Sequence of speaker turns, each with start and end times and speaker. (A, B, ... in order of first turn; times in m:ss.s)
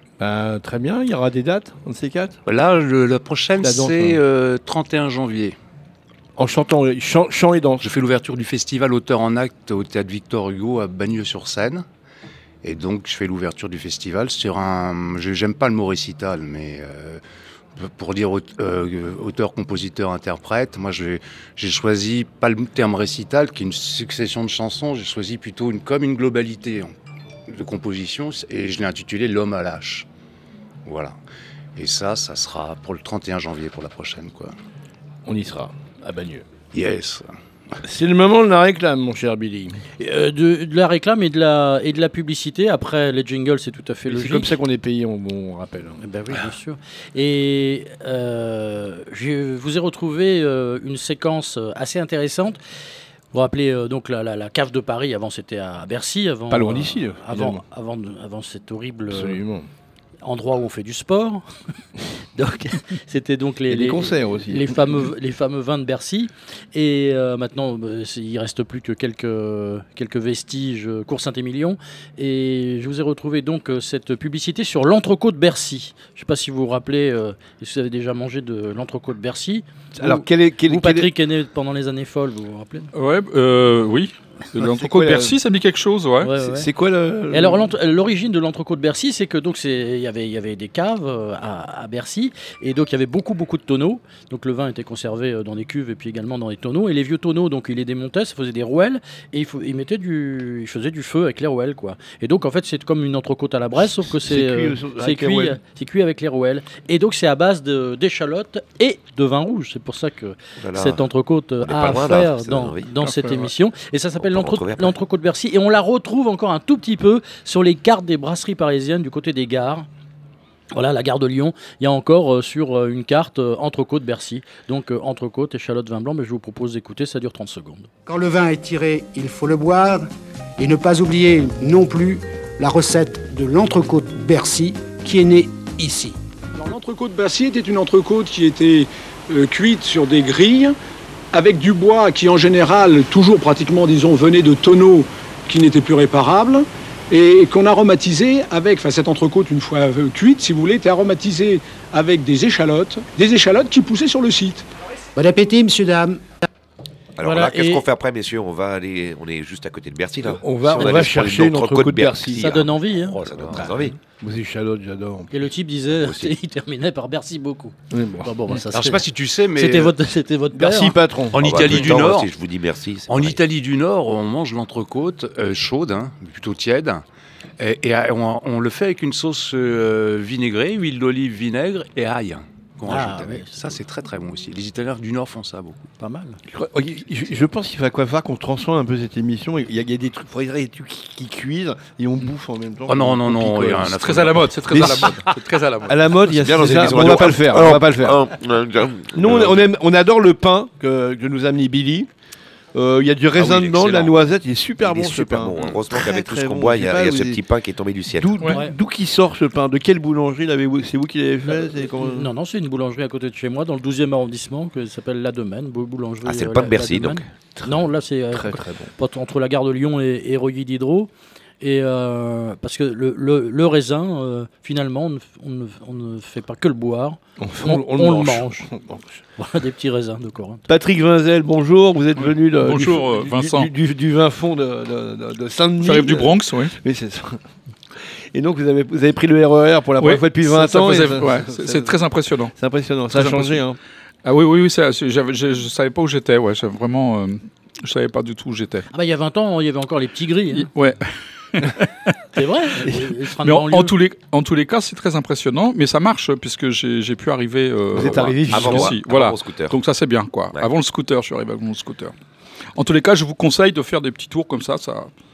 0:00.2-0:02.4 A
0:02.5-0:05.6 B
0:03.6-0:04.2 A
0:06.4-0:07.9 A
0:07.8-0:11.8 B
0:12.6-0:17.2 B
0:17.8-0:26.9 B
0:27.5-0:30.1 B
0:30.8-0:31.2 B
0:31.8-0:34.6 B
0:35.3-0:36.5 A
0:36.7-0:37.3 B
0:37.8-0:39.8 A
0:40.0-0:44.6 C
0:44.1-0:46.0 A
0:46.0-0:52.6 C
0:53.3-0:59.4 C
0:56.5-0:57.6 A
0:59.1-0:59.7 A
1:00.2-1:01.4 C
1:02.4-1:22.9 C
1:03.7-1:04.8 A
1:20.0-1:21.1 A
1:22.9-1:26.3 D
1:24.6-1:25.4 A
1:26.2-1:26.7 C
1:26.4-1:27.7 A
1:27.3-1:59.9 C
1:44.0-1:45.6 A
1:50.6-1:51.0 E
1:51.6-1:52.9 E
1:53.1-1:53.5 D
1:54.2-1:55.0 E
2:00.7-2:07.9 C
2:08.1-2:10.1 F
2:10.6-2:16.2 F
2:16.6-2:20.8 G
2:21.3-2:34.7 G
2:35.2-2:36.3 F
2:37.2-2:44.0 E
2:37.2-2:37.8 C
2:40.3-2:42.5 A
2:42.4-2:43.2 C
2:43.5-2:45.3 A
2:45.3-2:51.0 C
2:46.0-2:46.3 E
2:47.9-2:48.6 A
2:48.7-2:50.0 B
2:50.5-2:51.8 A
2:51.3-2:52.3 B
2:51.4-2:53.4 E
2:53.1-2:57.0 B
2:57.6-3:05.9 B
3:02.9-3:03.7 C
3:06.0-3:06.4 C
3:06.5-3:14.0 A
3:12.9-3:15.1 B
3:13.9-3:16.2 D
3:14.7-3:15.2 A
3:15.9-3:18.3 A
3:16.3-3:19.6 E
3:19.1-3:22.1 A
3:22.7-3:27.4 A
3:23.4-3:24.1 B
3:24.8-3:28.4 E
3:28.1-3:32.3 A
3:31.4-3:41.1 C
3:36.2-3:37.2 E
3:37.6-3:38.9 A
3:41.6-3:48.7 C
3:47.4-3:49.1 A
3:49.4-3:50.6 C
3:50.7-3:57.4 A
3:52.2-3:53.7 D
3:55.8-3:56.8 D
3:58.0-4:02.0 A
4:00.0-4:02.5 D
4:02.6-4:03.8 A
4:03.1-4:03.6 D
4:04.2-4:08.9 D
4:08.9-4:10.7 C
4:10.5-4:11.0 D
4:11.5-4:12.2 D
4:12.3-4:14.0 C
4:13.4-4:22.1 D
4:17.9-4:19.0 A
4:18.0-4:19.8 E
4:22.8-4:25.1 D